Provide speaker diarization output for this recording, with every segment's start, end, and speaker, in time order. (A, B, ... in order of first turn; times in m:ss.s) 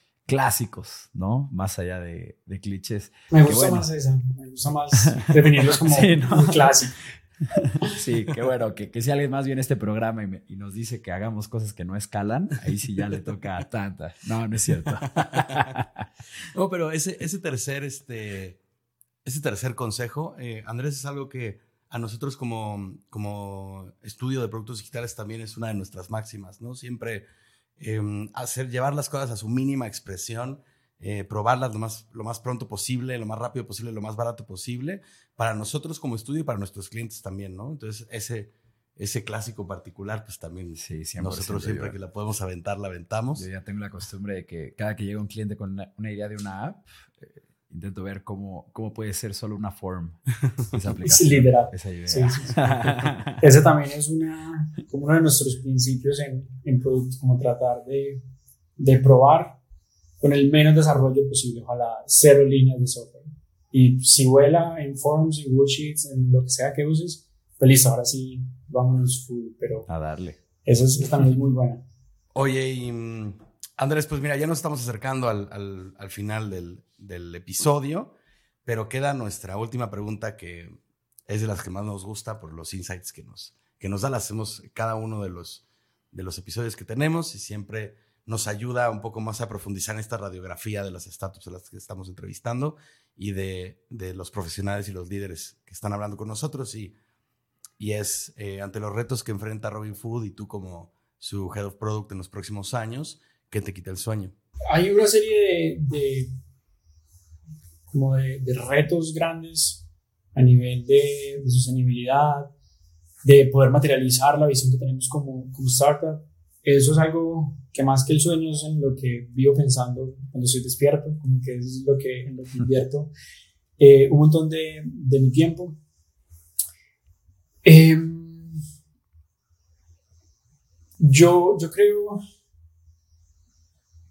0:00.2-0:03.8 A
0:03.3-0:07.0 B
0:05.0-0:06.8 A
0:07.5-0:16.0 A
0:15.1-0:15.6 C
0:16.5-0:18.6 C
0:19.2-0:27.2 C
0:27.8-0:43.4 C
0:40.8-0:41.9 A
0:43.4-0:50.2 A
0:50.7-0:53.4 A
0:51.0-0:58.2 B
0:58.8-0:59.5 B
1:00.2-1:09.9 B
1:09.9-1:10.4 A
1:10.6-1:11.8 B
1:12.3-1:18.1 C
1:18.6-1:20.8 C
1:21.3-1:36.9 C
1:37.8-1:44.3 C
1:44.7-1:46.3 B
1:47.9-1:49.8 B
1:50.3-1:52.5 B
1:53.2-2:03.1 B
2:03.8-2:05.8 B
2:07.6-2:08.6 B
2:11.0-2:12.2 B